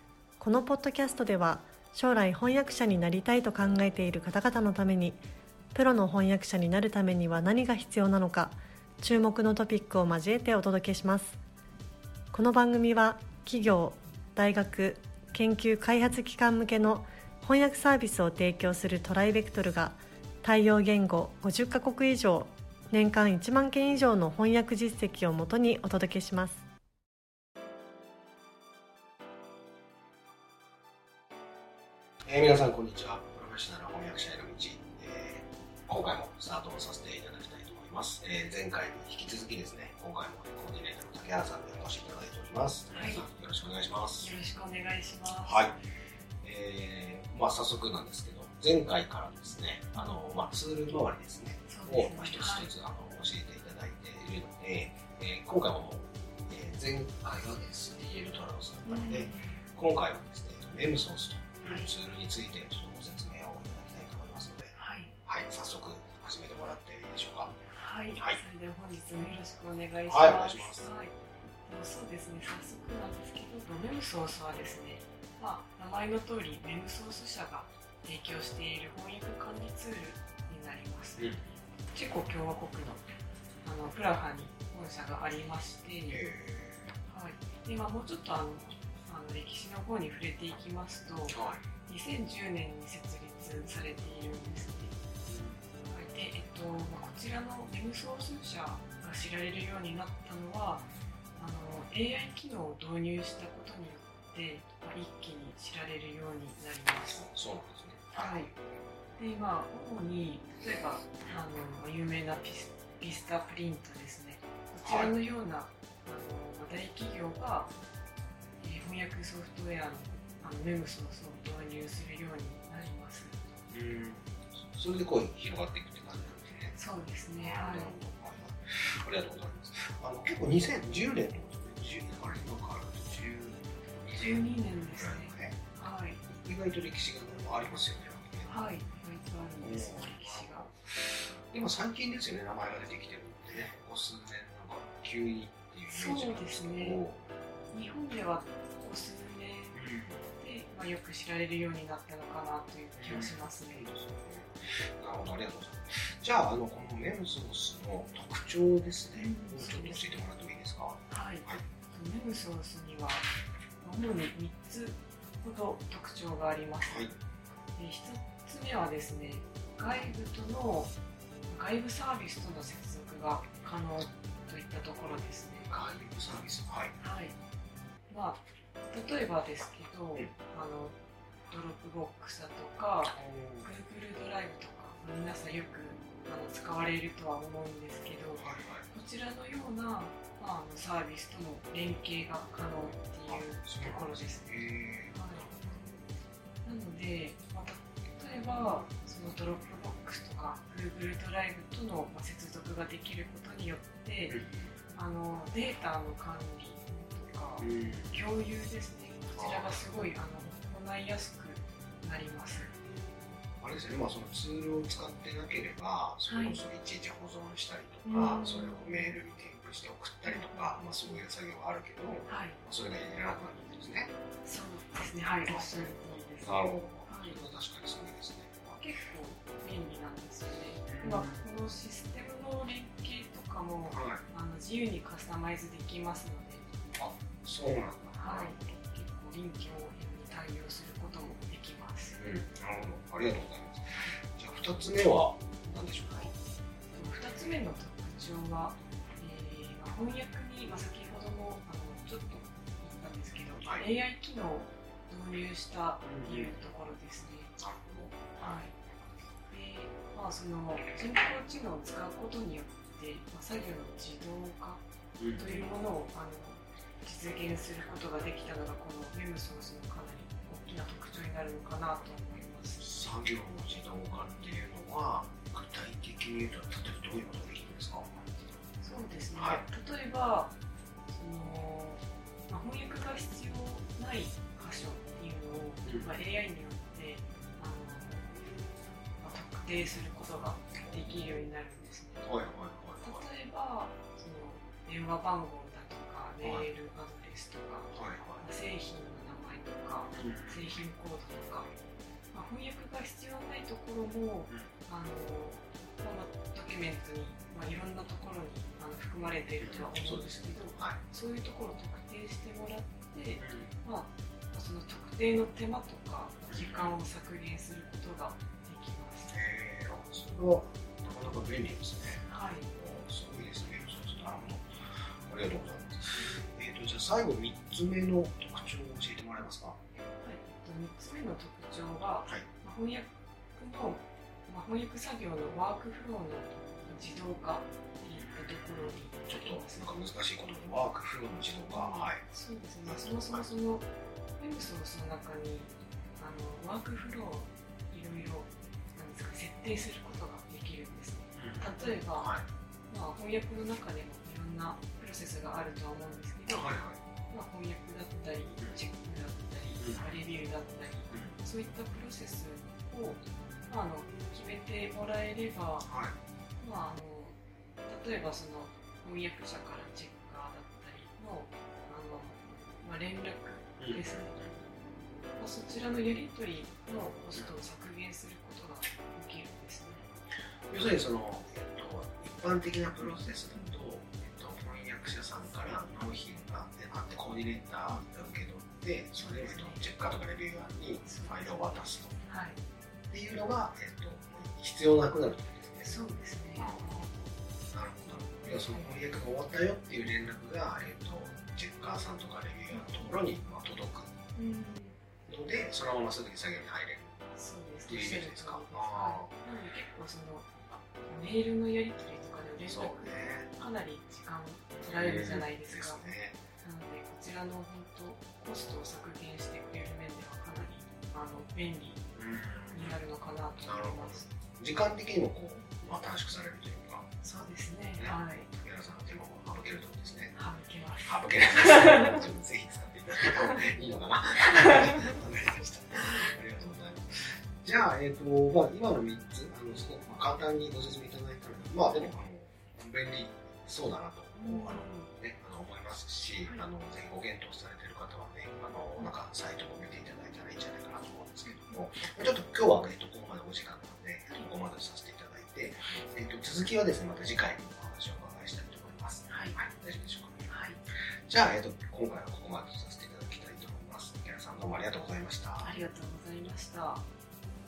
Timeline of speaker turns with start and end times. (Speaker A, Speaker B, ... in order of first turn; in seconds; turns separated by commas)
Speaker A: 0.4-11.4, Speaker A: 12.3-26.6, Speaker B: 32.2-44.3, Speaker C: 42.9-43.3, Speaker C: 44.2-45.8, Speaker B: 45.4-45.8, Speaker B: 46.4-67.6, Speaker C: 49.9-50.2, Speaker C: 51.7-52.7, Speaker C: 58.8-59.6, Speaker C: 61.6-61.9, Speaker C: 64.8-65.1, Speaker C: 67.7-71.1, Speaker B: 68.1-68.4, Speaker B: 70.1-70.9, Speaker C: 71.7-81.3, Speaker B: 81.2-81.5, Speaker C: 81.9-83.0, Speaker C: 83.6-86.2, Speaker B: 86.1-86.9, Speaker C: 87.1-94.9, Speaker B: 91.3-91.6, Speaker B: 95.2-95.6, Speaker C: 95.8-107.2, Speaker B: 107.1-108.8, Speaker C: 108.1-108.5, Speaker C: 109.2-117.7, Speaker B: 114.8-115.1, Speaker C: 118.6-123.4, Speaker B: 123.7-126.8, Speaker C: 126.7-127.9, Speaker B: 127.4-135.7, Speaker C: 134.2-136.2, Speaker B: 136.2-138.7, Speaker C: 138.4-140.7, Speaker B: 139.6-147.2, Speaker C: 145.9-147.0, Speaker C: 147.7-149.8, Speaker B: 149.7-150.2, Speaker C: 150.4-153.9, Speaker B: 152.9-161.6, Speaker C: 159.2-160.2, Speaker C: 161.1-163.3, Speaker C: 163.8-167.1, Speaker B: 166.8-167.1, Speaker C: 167.8-170.9, Speaker C: 171.5-175.8, Speaker B: 175.6-176.9, Speaker C: 177.0-177.3, Speaker C: 178.1-181.0, Speaker C: 181.5-195.5, Speaker B: 183.1-183.7, Speaker B: 188.3-188.9, Speaker B: 193.3-196.1, Speaker C: 196.6-204.4, Speaker B: 198.3-198.8, Speaker B: 204.3-204.7, Speaker C: 204.9-212.7, Speaker B: 207.6-208.1, Speaker B: 209.3-210.1, Speaker B: 213.6-224.1, Speaker C: 216.3-216.6, Speaker C: 218.0-219.1, Speaker C: 220.2-221.2, Speaker C: 222.2-222.6, Speaker C: 224.4-227.4, Speaker B: 225.4-225.7, Speaker B: 226.4-228.8, Speaker C: 228.7-236.7, Speaker B: 230.9-231.4, Speaker B: 233.9-234.2, Speaker B: 236.9-238.8, Speaker C: 238.1-242.2, Speaker B: 242.1-246.3, Speaker C: 246.9-257.5, Speaker B: 253.6-253.9, Speaker B: 256.0-256.6, Speaker B: 257.6-258.5, Speaker C: 258.4-258.8, Speaker C: 259.5-264.8, Speaker B: 265.2-265.6, Speaker C: 265.4-272.8, Speaker B: 272.8-278.2, Speaker C: 274.1-274.6, Speaker C: 278.8-280.5, Speaker B: 279.3-279.6, Speaker C: 281.1-288.4, Speaker B: 285.8-286.1, Speaker C: 289.2-292.2, Speaker B: 290.8-291.1, Speaker B: 292.2-293.3, Speaker C: 293.0-301.7, Speaker B: 296.4-296.7, Speaker B: 297.9-298.4, Speaker B: 300.1-300.8, Speaker C: 302.3-319.3, Speaker B: 309.6-311.0, Speaker B: 313.4-313.7, Speaker B: 316.5-316.9, Speaker B: 319.3-329.8, Speaker C: 322.2-322.7, Speaker C: 329.9-340.0, Speaker B: 339.2-342.2, Speaker C: 341.7-343.9, Speaker B: 342.8-343.5, Speaker C: 344.4-352.3, Speaker B: 351.3-352.4, Speaker C: 352.9-356.7, Speaker B: 356.5-357.0, Speaker C: 357.3-365.9, Speaker B: 359.8-360.1, Speaker B: 361.1-361.3, Speaker B: 365.8-366.1, Speaker C: 366.6-374.4, Speaker B: 373.8-374.6, Speaker C: 375.4-380.0, Speaker B: 379.9-392.2, Speaker C: 389.1-389.8, Speaker C: 391.0-392.6, Speaker B: 393.1-396.0, Speaker C: 395.8-397.1, Speaker B: 396.6-404.1, Speaker C: 398.7-398.9, Speaker C: 402.7-403.1, Speaker C: 404.3-405.0, Speaker B: 405.2-407.2, Speaker C: 407.3-410.5, Speaker B: 407.8-409.3, Speaker C: 411.0-416.0, Speaker B: 412.6-413.5, Speaker B: 414.8-416.4, Speaker C: 416.6-422.0, Speaker B: 422.1-422.9, Speaker C: 422.7-424.3, Speaker B: 423.6-427.1, Speaker C: 427.2-428.5, Speaker B: 427.9-430.4, Speaker C: 430.3-432.2, Speaker B: 431.0-460.4, Speaker C: 444.4-445.1, Speaker C: 451.4-451.9, Speaker C: 454.3-454.5, Speaker C: 459.3-459.6, Speaker C: 460.4-460.8, Speaker B: 461.2-465.7, Speaker C: 465.6-467.1